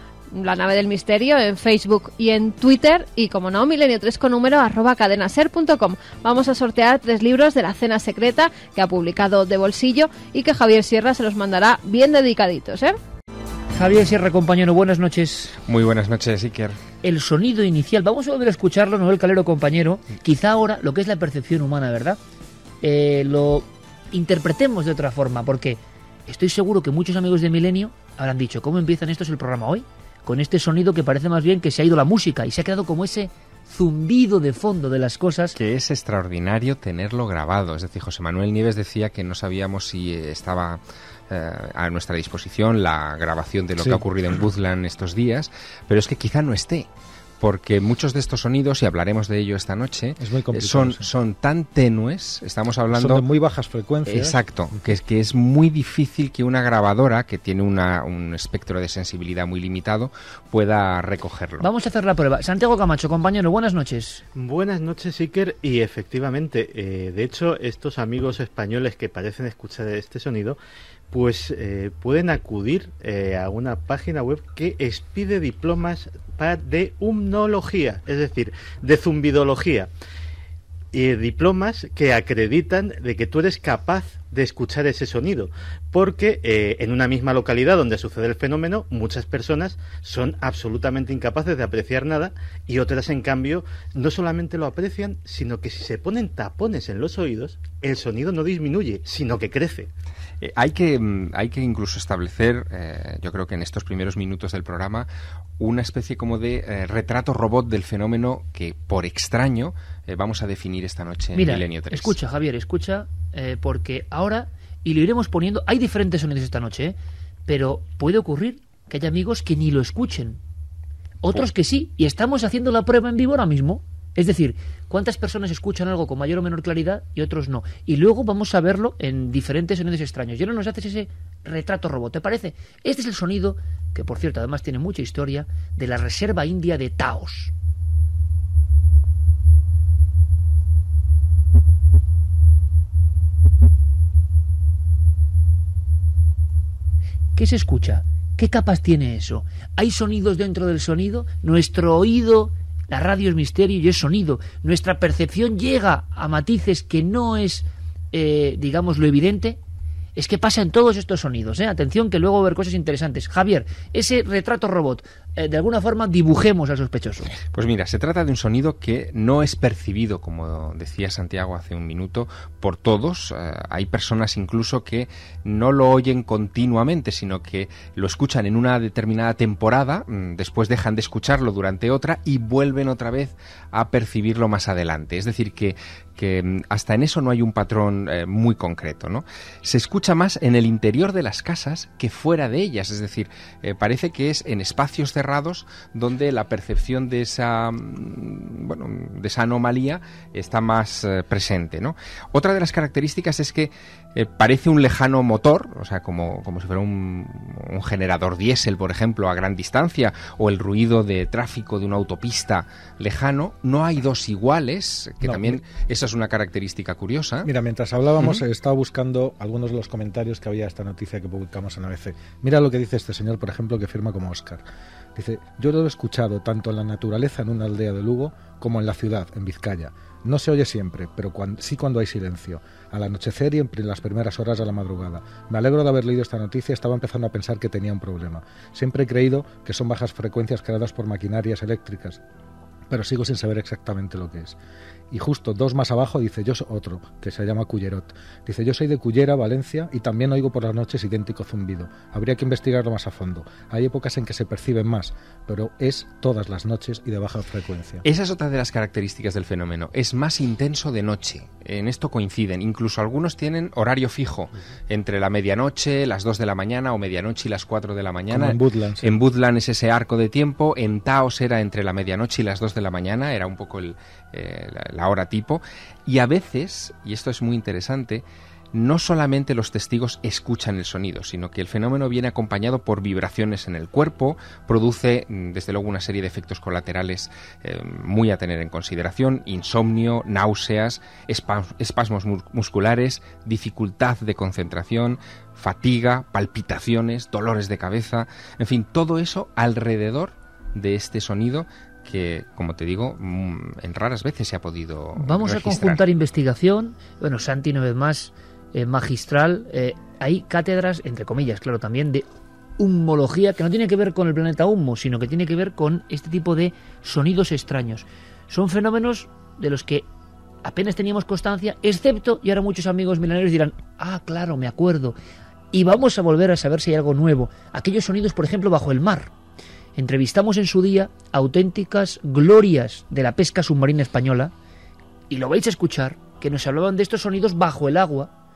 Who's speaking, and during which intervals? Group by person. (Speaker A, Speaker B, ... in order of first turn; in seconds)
Speaker A: 0.3-13.0
Speaker B: 13.7-15.5, 17.0-22.2, 22.8-35.5, 61.6-64.2, 111.3-120.4, 121.2-137.5, 147.3-159.6, 160.2-167.3, 305.1-312.2, 312.8-320.1, 320.6-325.2, 325.7-329.3, 330.0-334.5, 335.3-338.3
Speaker C: 15.7-16.8, 35.5-46.9, 47.4-53.2, 54.0-61.7, 100.4-112.2, 167.5-217.5, 258.0-306.0
Speaker D: 43.8-44.0, 50.2-51.1, 52.9-54.9, 215.2-215.6, 217.4-242.2, 242.9-244.6, 245.1-258.0, 268.3-269.2
Speaker E: 64.4-70.6, 71.1-79.9, 80.9-99.9